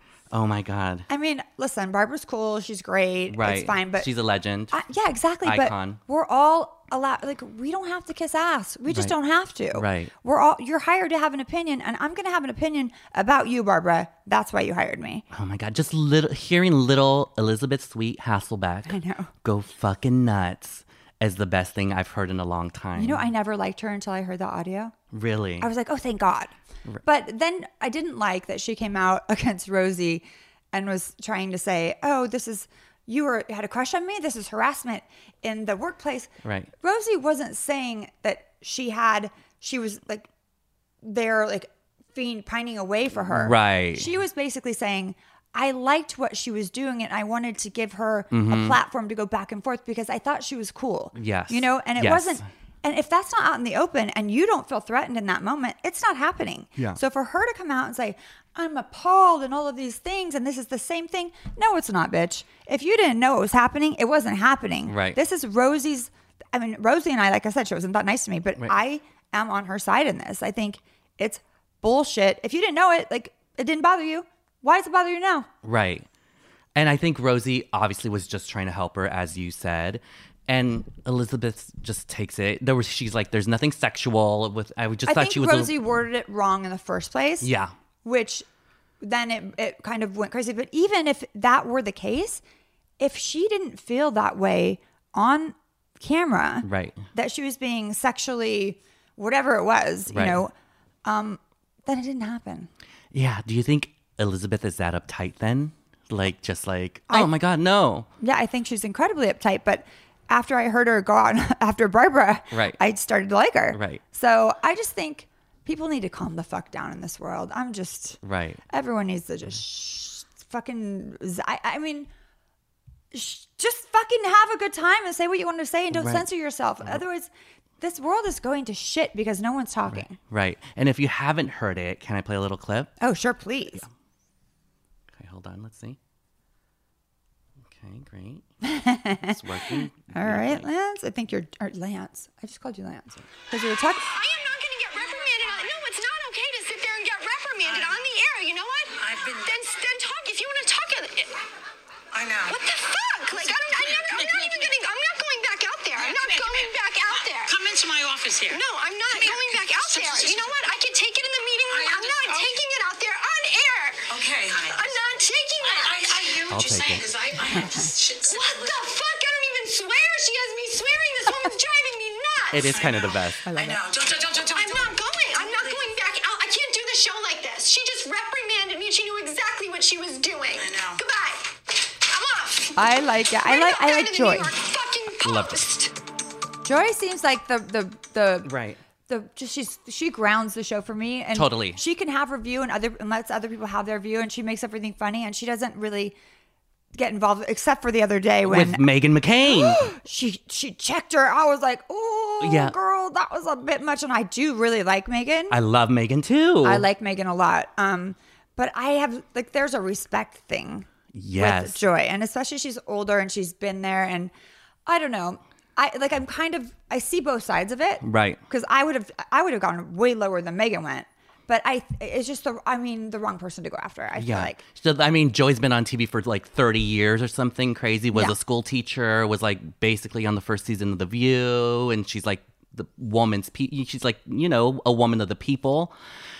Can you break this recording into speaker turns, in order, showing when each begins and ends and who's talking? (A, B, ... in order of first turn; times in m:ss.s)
0:00.3-0:01.1 A
0:01.1-0:04.1 B
0:03.3-0:04.8 A
0:04.7-0:15.2 B
0:05.4-0:06.0 A
0:08.9-0:09.1 A
0:09.7-0:10.1 A
0:15.3-0:23.3 A
0:18.8-0:19.3 B
0:23.0-0:24.9 B
0:25.1-0:25.7 A
0:25.6-0:40.3 B
0:36.4-0:36.7 A
0:41.0-1:15.5 B
0:43.3-0:44.1 A
0:48.3-0:48.8 A
0:51.1-0:52.4 A
1:04.8-1:05.2 A
1:15.6-1:16.1 A
1:16.7-1:25.7 A
1:25.0-1:27.5 B
1:27.4-1:27.7 A
1:28.0-1:28.4 B
1:29.0-1:32.4 B
1:33.0-1:40.5 B
1:36.6-1:37.0 A
1:40.1-1:40.4 A
1:41.0-1:42.7 B
1:43.1-1:48.1 A
1:48.2-2:02.1 B
1:52.5-1:52.8 A
1:53.7-1:54.0 A
1:58.2-1:58.6 A
2:03.1-2:07.3 B
2:05.9-2:06.2 A
2:07.8-2:10.2 B
2:09.9-2:12.9 A
2:13.0-2:13.9 B
2:15.1-2:16.0 A
2:17.7-2:18.4 A
2:18.6-2:24.1 B
2:19.2-2:20.7 A
2:24.0-2:31.3 C
2:29.1-2:29.4 D
2:32.1-2:32.5 D
2:32.4-2:37.7 C
2:33.8-2:34.7 D
2:36.1-2:36.7 D
2:37.5-2:38.6 D
2:38.4-2:46.5 C
2:39.3-2:40.5 D
2:41.8-2:42.3 D
2:44.1-2:44.7 D
2:45.8-2:48.3 D
2:46.5-2:47.2 A
2:47.5-2:47.8 B
2:47.5-2:52.9 C
2:52.5-2:53.4 A
2:53.4-2:53.9 B
2:53.6-2:54.9 D
2:54.3-3:05.9 C
3:02.8-3:04.5 B
3:05.2-3:05.7 A
3:06.6-3:08.5 B
3:08.4-3:08.8 A
3:09.1-3:16.2 B
3:11.3-3:11.8 A
3:16.9-3:18.8 B
3:18.4-3:19.8 A
3:19.4-3:25.6 B
3:22.4-3:22.7 A
3:25.5-3:26.8 A
3:26.6-3:34.3 B
3:31.1-3:31.8 A
3:34.8-3:44.6 B
3:38.0-3:38.4 A
3:44.2-3:55.9 A